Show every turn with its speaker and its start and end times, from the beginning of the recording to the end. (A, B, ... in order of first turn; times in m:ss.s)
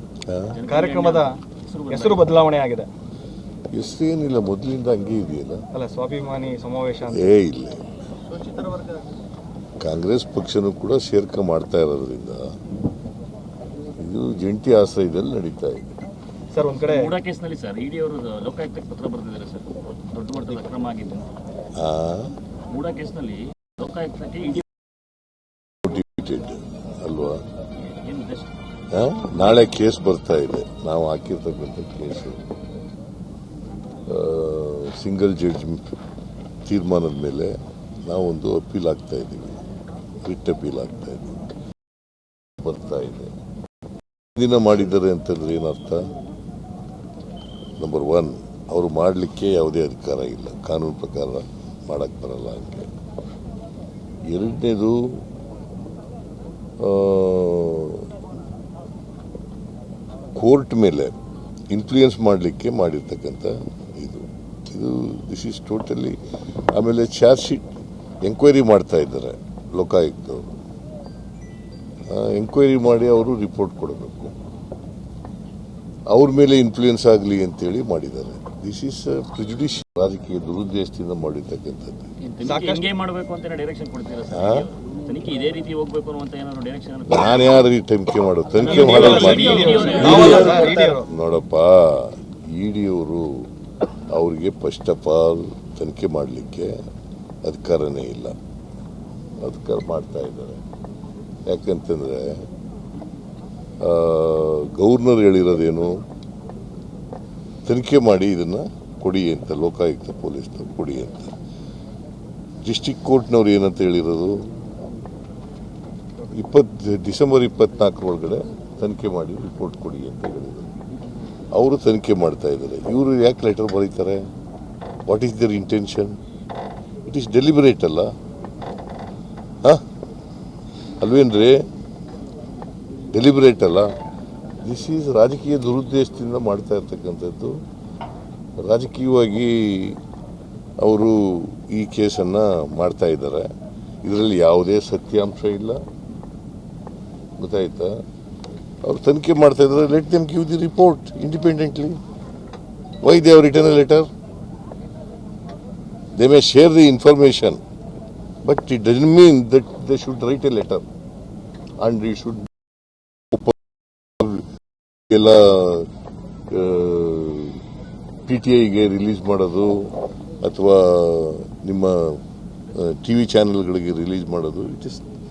0:00.3-0:00.6 A
0:00.5-0:02.4 B
0:00.7-0:02.9 C
0:03.7-0:05.6 A
0:05.7-0:07.3 C
0:07.1-0:07.9 A
0:08.3-0:09.0 C
0:09.8-0:12.5 A
0:14.0-0:15.8 A
0:16.5-0:17.1 C
0:16.7-0:21.3 B
0:21.8-0:22.4 A
0:22.7-0:24.6 B
0:25.8-0:27.4 A
0:27.8-0:28.5 B
0:28.9-0:32.5 A
0:34.0-0:35.9 A
0:36.6-0:39.6 A
0:40.2-0:41.4 A
0:42.6-0:43.3 A
0:44.3-0:46.1 A
0:47.8-0:52.9 A
0:54.3-0:55.2 A
0:56.8-0:58.1 A
1:00.3-1:01.1 A
1:01.7-1:06.2 A
1:06.7-1:07.7 A
1:08.2-1:10.5 A
1:12.1-1:14.3 A
1:16.1-1:22.1 A
1:22.2-1:27.7 B
1:22.4-1:22.8 C
1:24.3-1:24.7 A
1:27.1-1:33.5 A
1:28.6-1:30.8 B
1:28.6-1:31.1 C
1:34.1-1:36.8 A
1:37.4-1:38.4 A
1:39.4-1:40.6 A
1:41.5-1:42.5 A
1:43.8-1:46.0 A
1:47.6-1:51.3 A
1:52.6-1:54.5 A
1:56.3-2:00.7 A
2:01.5-2:04.3 A
2:05.1-2:06.2 A
2:07.0-2:08.1 A
2:11.0-2:11.6 A
2:13.1-2:13.9 A
2:14.6-2:17.6 A
2:18.6-2:20.0 A
2:20.8-2:23.5 A
2:24.0-2:25.8 A
2:27.4-2:28.0 A
2:28.8-2:32.0 A
2:33.0-2:34.1 A
2:36.1-2:37.6 A
2:38.4-2:40.8 A
2:41.8-2:42.5 A
2:44.2-2:44.4 A
2:45.1-2:45.9 A
2:46.5-2:47.6 A
2:48.3-2:55.0 A